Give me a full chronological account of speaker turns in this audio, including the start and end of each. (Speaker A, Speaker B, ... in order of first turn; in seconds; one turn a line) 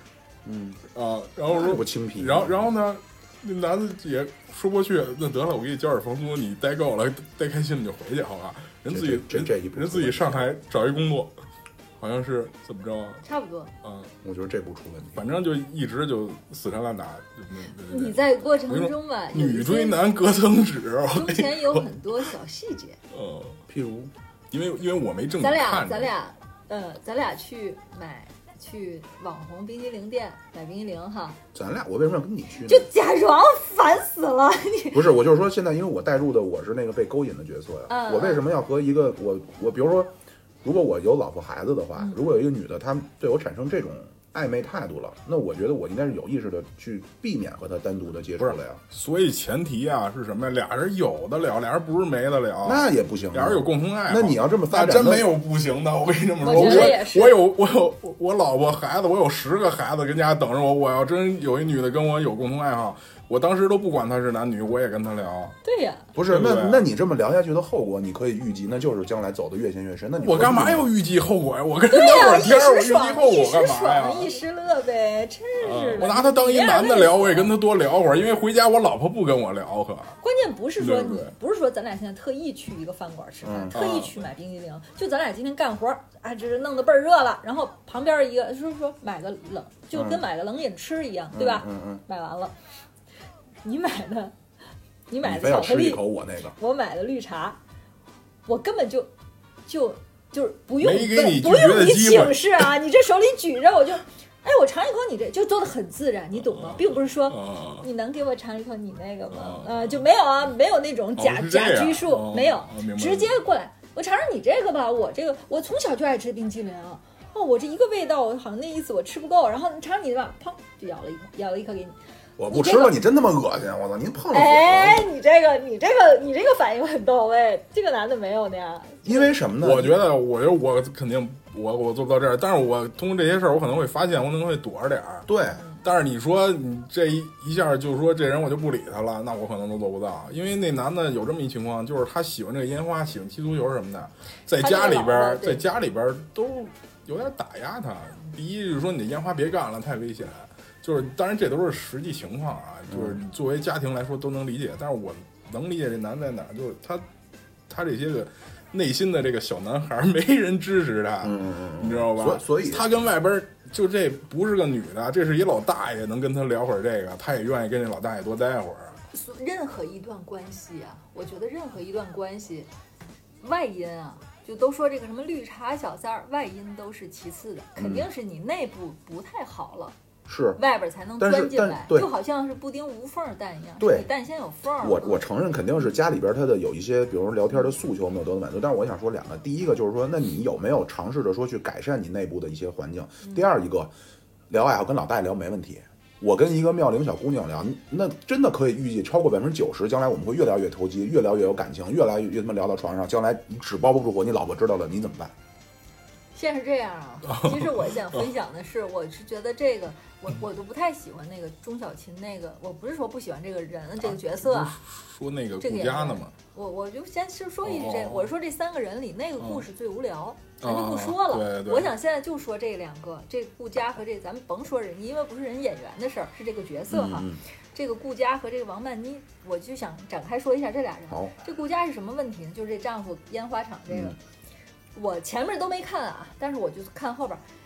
Speaker A: 0.4-0.8
Speaker B: 0.9-11.3
Speaker A: 1.5-2.7
Speaker A: 8.9-10.5
Speaker B: 12.0-13.2
Speaker C: 13.2-13.7
Speaker B: 13.8-14.1
Speaker A: 14.2-15.2
Speaker B: 15.1-21.9
Speaker C: 17.9-20.0
Speaker C: 21.1-23.0
Speaker B: 23.1-23.6
Speaker A: 23.7-24.1
Speaker B: 24.5-26.1
Speaker C: 25.4-31.4
Speaker A: 31.5-32.9
Speaker C: 32.6-35.1
Speaker A: 34.9-48.8
Speaker C: 37.9-38.4
Speaker B: 48.4-65.5
Speaker A: 52.6-55.3
Speaker C: 56.4-57.4
Speaker A: 56.5-57.0
Speaker C: 65.6-66.1
Speaker A: 66.1-70.9
Speaker B: 66.2-66.8
Speaker B: 70.2-74.3
Speaker C: 71.9-77.5
Speaker B: 75.6-80.2
Speaker C: 80.2-92.5
Speaker B: 80.8-81.3
Speaker A: 83.4-83.8
Speaker B: 83.7-84.2
Speaker A: 89.9-90.2
Speaker A: 91.3-92.0
Speaker C: 93.6-94.3
Speaker C: 95.1-96.0
Speaker A: 95.2-96.5
Speaker C: 96.5-97.6
Speaker C: 98.5-99.1
Speaker C: 99.7-122.0
Speaker B: 100.8-102.7
Speaker B: 106.4-107.8
Speaker B: 109.3-110.0
Speaker B: 111.2-113.3
Speaker A: 122.4-125.1
Speaker C: 122.5-123.0
Speaker C: 124.3-129.3
Speaker A: 129.0-130.0
Speaker B: 129.6-135.3
Speaker A: 135.3-135.6
Speaker C: 135.5-135.8
Speaker B: 135.8-157.0
Speaker C: 144.6-145.6
Speaker A: 152.9-153.2
Speaker B: 157.7-169.0
Speaker A: 161.2-163.1
Speaker C: 169.1-172.7
Speaker C: 173.4-179.9
Speaker A: 177.8-178.1
Speaker A: 180.2-180.6
Speaker C: 180.6-185.3
Speaker A: 181.2-182.1
Speaker A: 183.8-184.1
Speaker A: 184.8-193.9
Speaker A: 194.5-205.3
Speaker C: 206.3-214.8
Speaker B: 207.3-208.2
Speaker B: 214.0-216.3
Speaker C: 215.6-234.2
Speaker B: 217.6-218.3
Speaker B: 219.4-219.6
Speaker B: 220.6-221.9
Speaker A: 226.9-227.4
Speaker A: 231.1-231.3
Speaker A: 233.9-234.2
Speaker C: 234.9-237.4